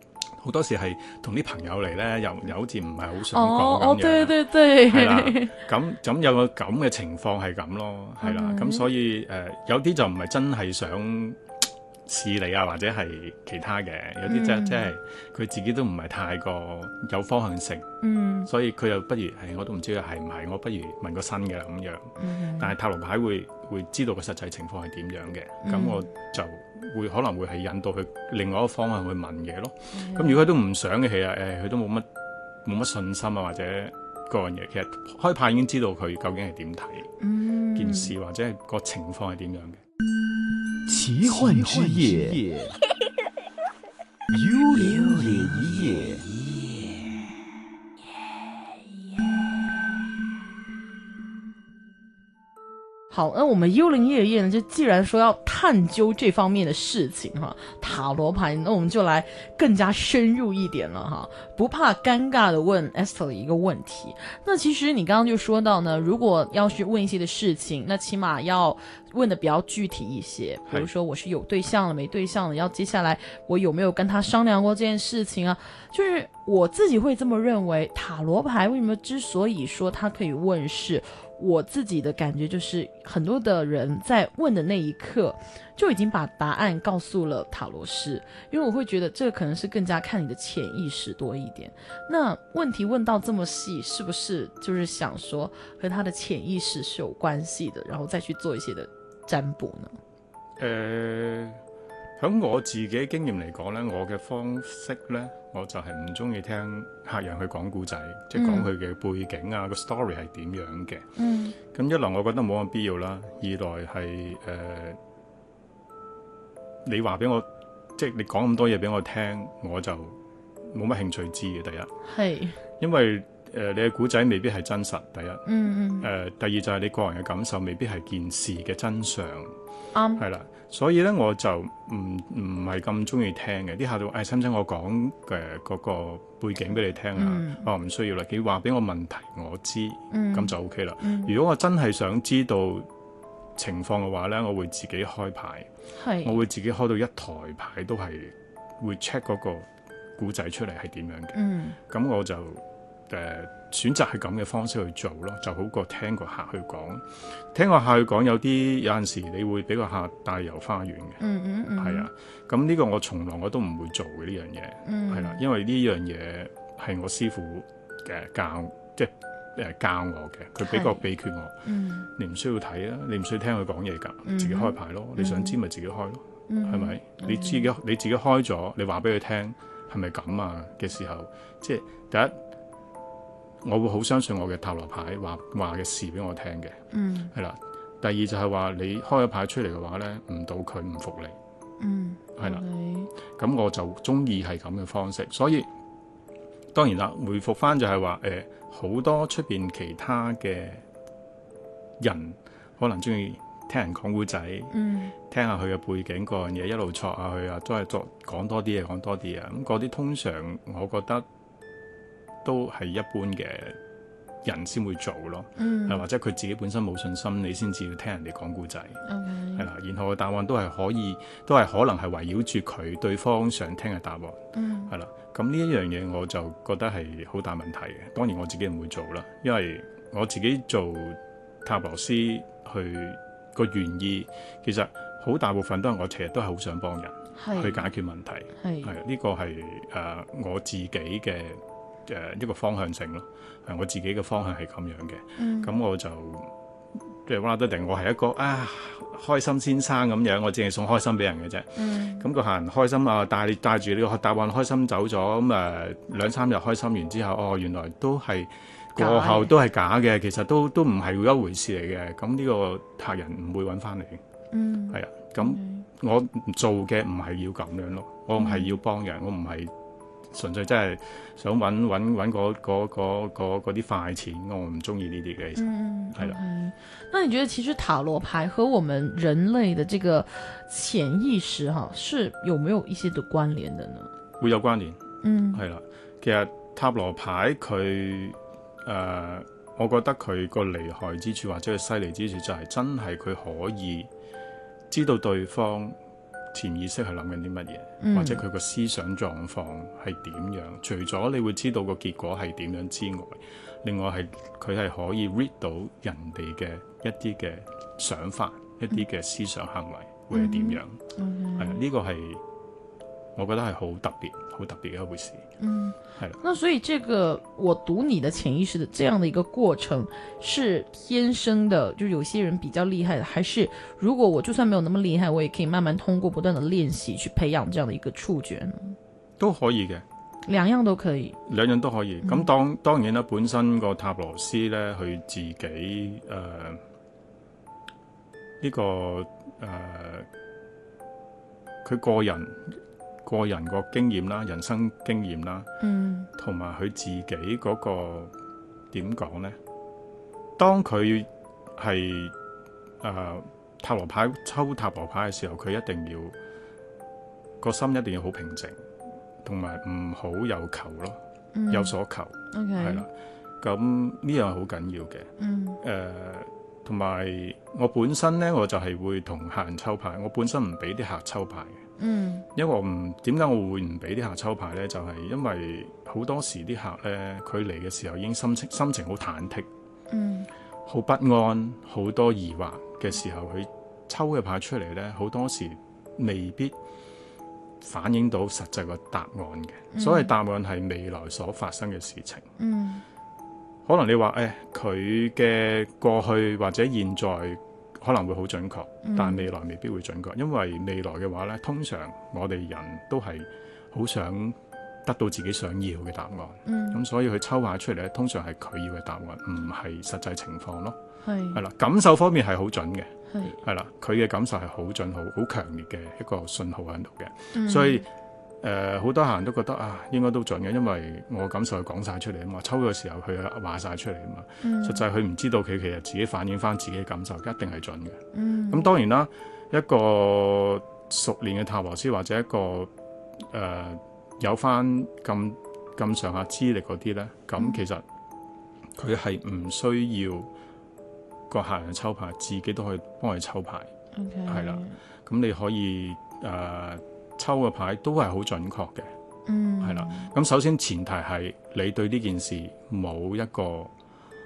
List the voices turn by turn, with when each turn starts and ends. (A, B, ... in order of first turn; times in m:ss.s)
0:00.4-0:11.4 A
0:03.3-0:05.6 B
0:08.2-0:08.9 B
0:12.1-0:17.9 A
0:14.3-0:14.9 B
0:18.0-0:18.5 B
0:18.4-0:32.1 A
0:22.2-0:22.7 B
0:25.6-0:26.0 B
0:29.9-0:30.4 B
0:32.6-0:37.1 A
0:37.2-0:38.1 B
0:37.8-0:39.8 A
0:40.9-0:42.8 C
0:44.3-0:46.4 C
0:53.1-1:40.0 B
1:40.6-1:41.6 A
1:42.2-1:51.1 A
1:48.4-1:48.7 B
1:51.2-1:51.6 B
1:51.7-1:55.0 A
1:56.8-2:00.2 A
2:00.7-2:01.9 A
2:02.0-2:02.6 B
2:02.8-2:05.4 A
2:05.4-2:06.1 B
2:06.0-2:09.5 A
2:09.9-2:10.2 B
2:10.2-2:22.9 A
2:17.2-2:17.6 B
2:20.1-2:21.3 B
2:23.6-2:25.7 A
2:26.0-2:26.4 B
2:26.2-2:41.2 A
2:31.3-2:31.8 B
2:41.2-2:42.1 B
2:41.8-2:51.6 A
2:44.8-2:45.4 B
2:50.6-2:51.0 B
2:51.6-2:52.1 B
2:52.2-3:02.4 A
2:54.2-2:55.6 B
2:56.5-2:57.7 B
3:03.6-3:06.8 A
3:06.9-3:07.3 B
3:07.3-3:11.4 A
3:11.8-3:13.1 B
3:12.4-3:12.6 A
3:13.3-3:15.7 A
3:16.7-3:20.8 A
3:22.0-3:31.2 A
3:24.7-3:25.1 B
3:32.4-3:33.8 A
3:34.4-3:39.0 A
3:35.6-3:36.0 B
3:39.0-3:39.7 B
3:39.6-4:06.5 A
3:44.5-3:44.9 B
3:57.4-3:57.9 B
3:58.6-3:59.0 B
4:05.4-4:05.7 B
4:07.3-4:24.2 A
4:11.8-4:12.3 B
4:19.0-4:19.5 B
4:24.5-4:25.9 B
4:24.9-4:29.7 A
4:28.4-4:28.8 B
4:30.3-4:36.4 A
4:35.6-4:44.1 B
4:44.4-4:45.0 A
4:45.2-4:45.6 B
4:45.5-4:54.1 A
4:54.9-4:56.0 A
4:56.5-5:11.0 A
4:58.0-4:58.4 B
5:10.3-5:11.8 B
5:11.6-5:12.4 A
5:13.4-5:15.4 A
5:15.6-5:29.0 B
5:29.4-5:30.0 A
5:30.4-5:31.4 B
5:31.4-5:36.8 A
5:32.2-5:32.5 B
5:38.6-5:40.3 A
5:41.8-5:42.7 A
5:43.2-5:45.7 A
5:45.8-5:46.3 B
5:46.4-5:48.3 A
5:48.9-5:49.6 A
5:50.6-5:52.3 A
5:53.0-5:56.4 A
5:57.6-5:58.8 A
5:59.4-6:01.2 A
6:01.6-6:01.9 B
6:01.7-6:03.1 A
6:02.5-6:03.1 B
6:03.6-6:05.3 A
6:05.4-6:05.8 B
6:05.8-6:11.8 A
6:12.0-6:12.4 B
6:12.6-6:19.7 A
6:20.1-6:20.5 B
6:20.8-6:26.8 A
6:27.8-6:32.4 A
6:29.9-6:30.3 B
6:32.6-6:33.0 B
6:33.9-6:51.0 A
6:39.0-6:39.5 B
6:46.6-6:47.0 B
6:51.2-6:51.6 B
6:51.5-6:53.1 A
6:53.3-6:53.6 B
6:53.6-6:58.0 A
6:57.5-6:58.0 B
6:58.6-7:12.9 A
7:04.6-7:05.0 B
7:08.3-7:08.9 B
7:13.5-7:18.0 A
7:19.0-7:20.5 A
7:21.5-7:23.9 A
7:24.1-7:25.0 B
7:24.5-7:29.1 A
7:29.5-7:30.3 B
7:29.8-7:33.9 A